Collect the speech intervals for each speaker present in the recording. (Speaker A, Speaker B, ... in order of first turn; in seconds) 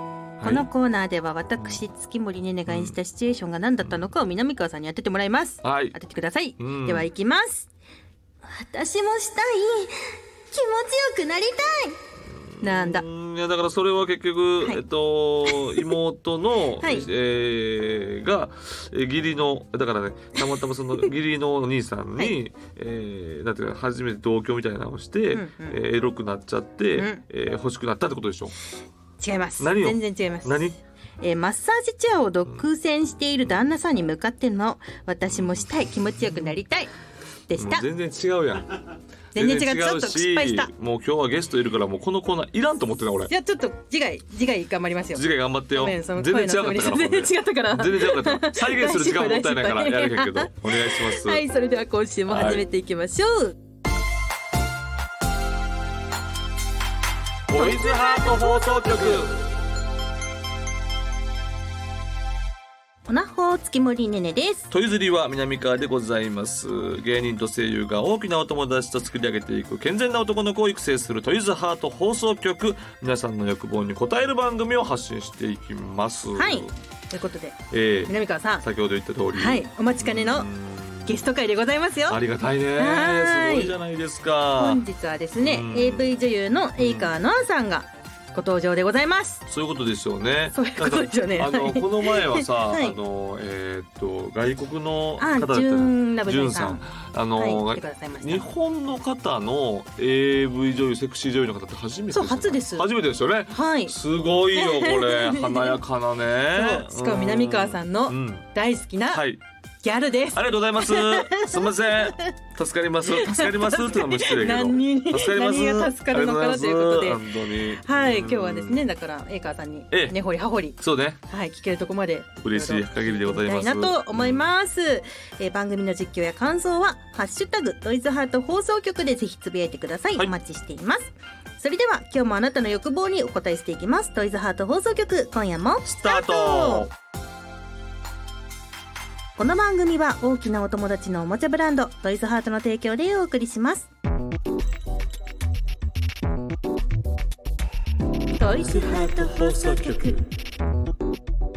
Speaker A: 0.4-7.7, 8.4-12.0, 12.6-13.1, 15.4-16.0, 16.8-17.1, 25.3-25.8, 26.9-27.2, 29.2-36.9, 37.5-37.9, 39.3-40.7, 43.3-53.5, 57.5-59.3, 63.1-64.7, 76.3-78.7, 79.3-80.5, 81.0-82.2, 82.7-83.7, 84.6-89.4, 90.5-93.0, 95.2-96.8, 97.3-98.5, 102.1-102.9, 103.5-104.0, 104.5-105.8, 106.5-109.2, 109.8-112.2, 113.0-136.9, 139.4-143.9, 148.3-150.2
Speaker B: 0.4-0.7, 2.7-3.0, 5.6-5.9, 6.6-7.1, 12.3-28.5, 29.6-30.7, 37.5-43.3, 45.1-51.4, 52.3-52.6, 57.5-59.4, 64.7-76.7, 77.7-81.3, 82.1-84.8, 85.4-86.2, 86.8-87.1, 89.5-108.5, 109.1-109.4, 110.3-118.8, 119.9-120.2, 120.8-121.2, 122.4-124.5, 135.8-136.9, 148.4-150.2